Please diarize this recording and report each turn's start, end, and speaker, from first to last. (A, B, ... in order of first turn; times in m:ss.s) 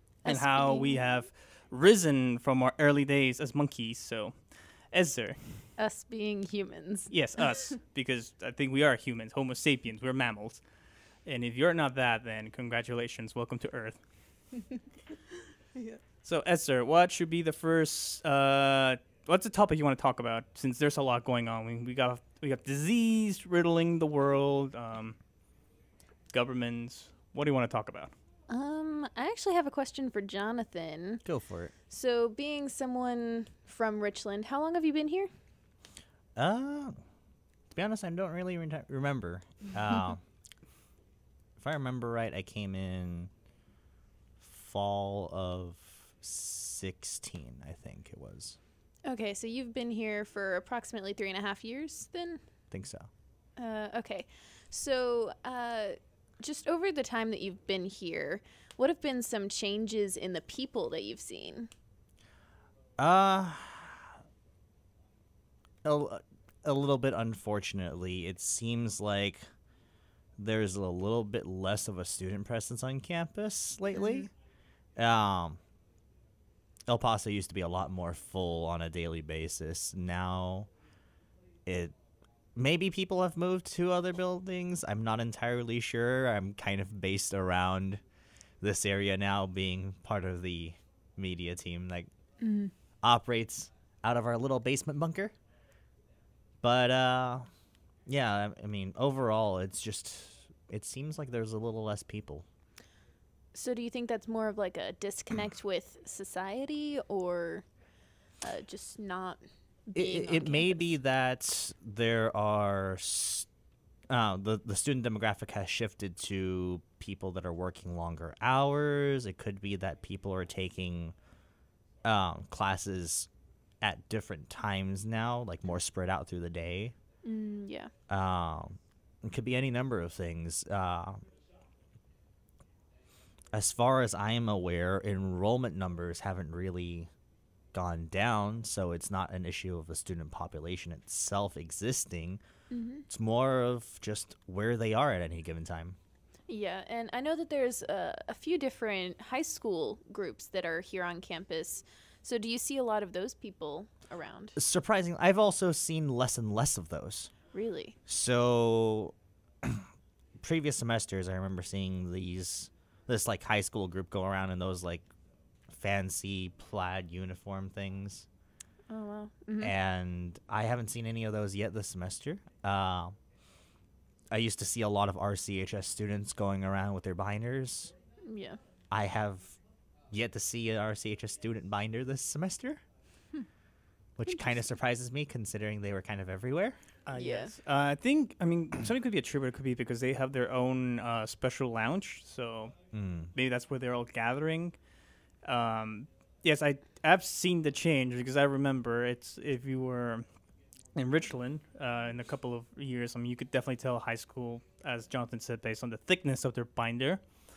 0:00.2-0:04.4 A
0:00.2-0:01.0 B
0:04.9-0:05.6 A
0:05.8-0:07.1 B
0:07.1-0:10.6 A
0:11.3-0:14.0 A
0:16.2-0:25.2 A
0:26.3-0:28.1 A
0:28.5-0:31.2 B
0:31.2-0:31.7 C
0:31.9-0:35.3 B
0:36.4-0:37.0 C
0:37.7-0:40.2 C
0:41.6-0:43.3 C
0:44.4-0:48.6 C
0:49.1-0:52.4 B
0:52.7-0:53.1 C
0:53.6-1:01.7 B
1:03.0-1:04.1 C
1:05.8-1:09.5 C
1:10.4-1:14.3 C
1:14.0-1:14.3 B
1:15.0-1:15.6 C
1:16.9-1:20.7 C
1:21.7-1:22.0 C
1:22.6-1:28.0 C
1:28.6-1:32.1 C
1:32.4-1:32.7 B
1:33.0-1:35.3 C
1:36.6-1:37.5 C
1:38.1-1:42.5 C
1:43.5-1:47.7 B
1:48.4-1:50.8 B
1:49.9-1:53.5 C
1:54.1-2:01.2 C
2:02.0-2:03.3 C
2:03.8-2:07.0 C
2:07.2-2:07.9 B
2:08.1-2:11.2 C
2:13.5-2:17.1 C
2:17.7-2:22.4 C
2:22.7-2:23.0 B
2:23.1-2:26.0 C
2:26.5-2:34.6 B
2:34.6-2:37.3 C
2:37.5-2:38.0 B
2:38.1-2:39.9 C
2:40.4-2:45.1 C
2:45.7-2:48.3 C
2:48.9-2:49.7 B
2:49.6-2:53.2 C
2:54.3-2:57.9 C
2:58.2-2:58.6 B
2:58.9-2:59.6 C
3:00.1-3:02.8 C
3:04.2-3:06.8 C
3:07.1-3:12.7 A
3:07.2-3:07.5 B
3:12.9-3:13.3 C
3:13.3-3:14.8 A
3:15.4-3:20.2 A
3:21.0-3:27.2 A